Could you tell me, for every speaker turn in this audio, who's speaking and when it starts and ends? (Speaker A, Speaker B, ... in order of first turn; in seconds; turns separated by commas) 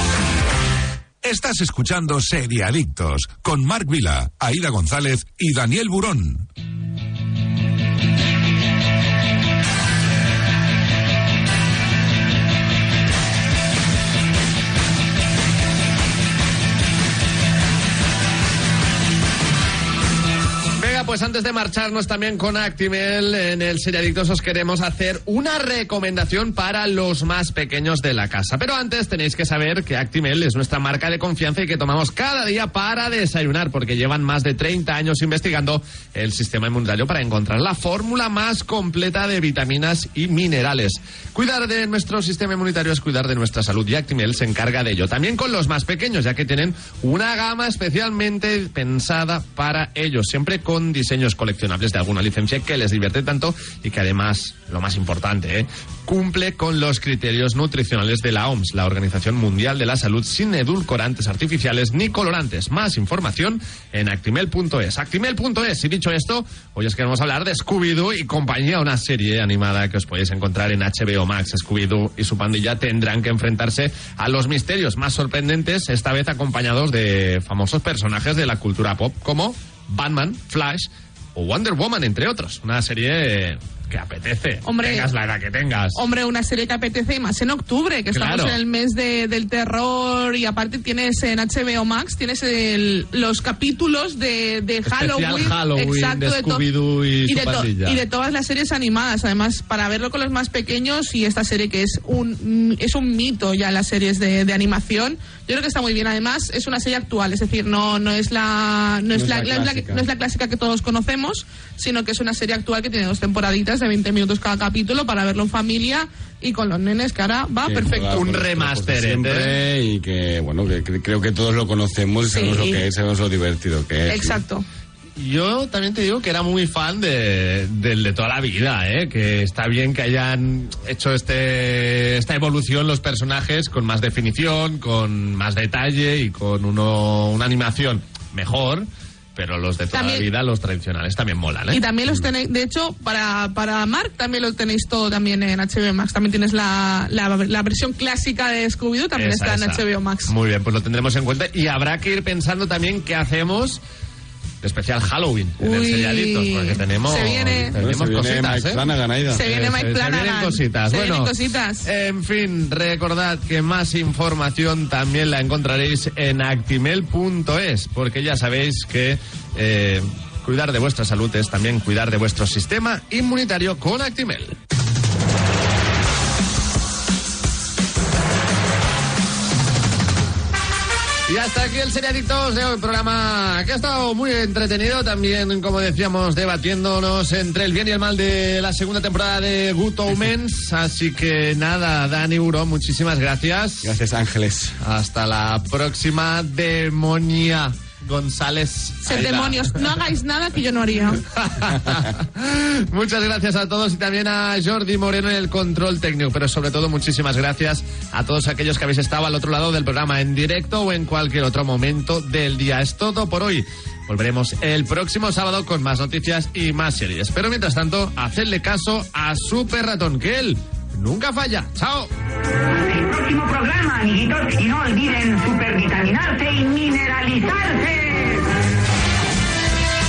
Speaker A: 1.2-6.5, Speaker B: 20.8-86.0, Speaker C: 84.6-85.1, Speaker C: 86.0-96.7, Speaker B: 88.1-88.6, Speaker B: 94.9-98.0, Speaker C: 97.2-118.3, Speaker D: 109.1-110.1, Speaker D: 117.6-124.4, Speaker B: 118.1-119.5, Speaker C: 122.3-122.8, Speaker C: 124.1-124.7, Speaker B: 125.2-141.8, Speaker C: 139.9-140.3, Speaker C: 141.7-150.3, Speaker B: 149.2-153.8, Speaker B: 154.6-158.9, Speaker C: 155.6-157.8, Speaker D: 157.7-159.4, Speaker C: 159.3-161.9, Speaker B: 159.4-161.3, Speaker B: 161.8-174.6, Speaker B: 181.3-194.0, Speaker D: 193.8-194.8, Speaker B: 194.8-199.8, Speaker C: 199.1-201.2, Speaker B: 201.2-222.1, Speaker E: 222.7-228.5